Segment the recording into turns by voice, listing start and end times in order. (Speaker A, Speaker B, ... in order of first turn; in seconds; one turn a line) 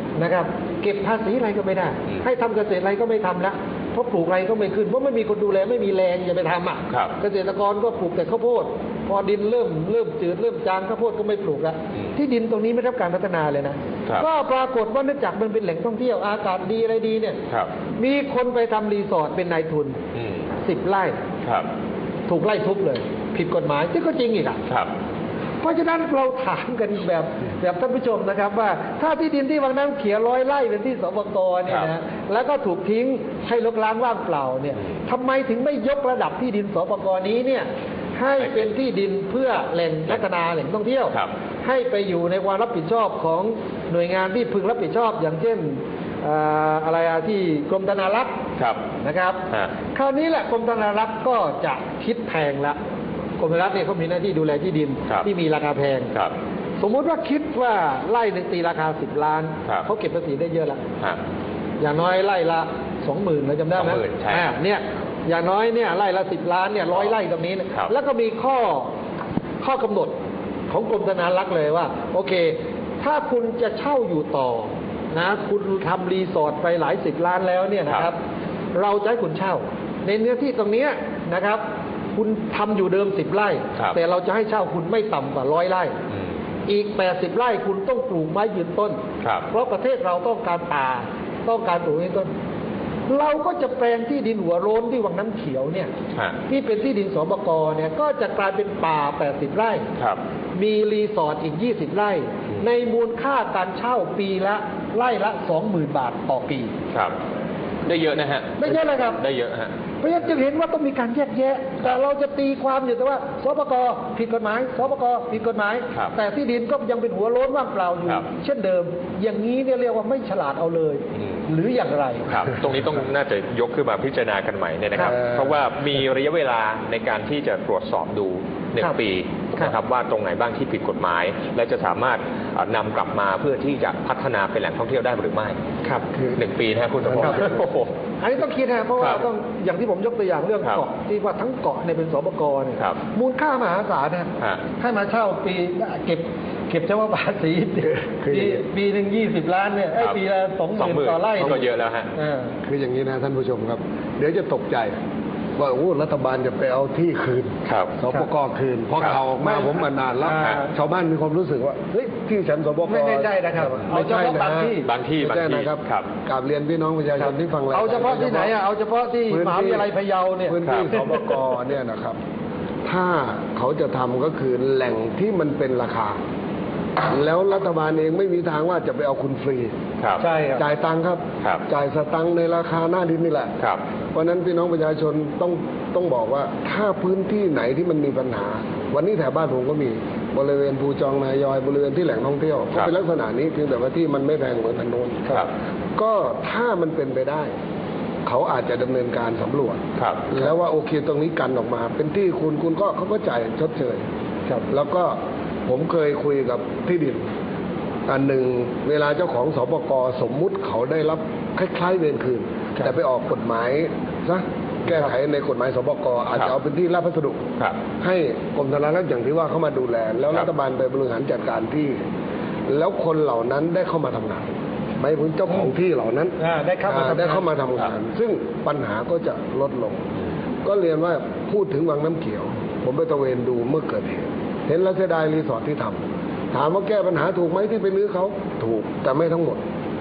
Speaker A: 0.2-17.4
Speaker B: 6.9-7.2
Speaker A: 18.0-20.0
Speaker B: 20.1-20.5
Speaker A: 20.6-21.2
Speaker B: 21.4-21.7
Speaker A: 22.3-24.6
Speaker B: 24.7-24.9
Speaker A: 25.6-48.4
Speaker B: 38.4-38.7
Speaker B: 48.6-48.8
Speaker A: 49.0-52.8
Speaker A: 53.4-56.1
Speaker A: 56.8-60.8
Speaker A: 61.8-68.9
Speaker B: 63.8-64.5
Speaker A: 69.6-70.2
Speaker A: 70.7-78.2
Speaker A: 78.7-81.6
Speaker A: 82.2-86.0
Speaker A: 86.7-92.3
Speaker A: 93.1-95.9
Speaker A: 96.5-99.9
Speaker A: 100.5-106.7
Speaker B: 106.9-107.2
Speaker B: 107.9-109.7
Speaker A: 108.6-109.2
Speaker A: 110.0-122.3
Speaker B: 122.3-135.6
Speaker A: 125.0-125.2
Speaker C: 136.1-136.4
Speaker B: 136.4-137.9
Speaker C: 137.1-137.6
Speaker A: 138.2-152.6
Speaker B: 139.0-139.2
Speaker C: 148.0-148.6
Speaker B: 150.8-152.1
Speaker C: 152.7-155.0
Speaker C: 155.6-168.6
Speaker B: 157.7-157.9
Speaker A: 159.4-160.7
Speaker A: 162.8-164.9
Speaker B: 164.8-166.1
Speaker A: 167.2-171.3
Speaker C: 169.3-169.9
Speaker C: 170.5-172.2
Speaker B: 170.7-170.9
Speaker C: 172.8-176.2
Speaker C: 177.1-179.7
Speaker A: 180.2-180.6
Speaker C: 180.6-183.6
Speaker C: 184.1-195.5
Speaker C: 196.0-197.5
Speaker C: 198.2-204.1
Speaker B: 200.0-200.3
Speaker C: 204.7-207.3
Speaker C: 208.1-217.4
Speaker C: 218.0-222.0
Speaker C: 222.7-230.1
Speaker A: 226.4-227.5
Speaker C: 230.6-239.6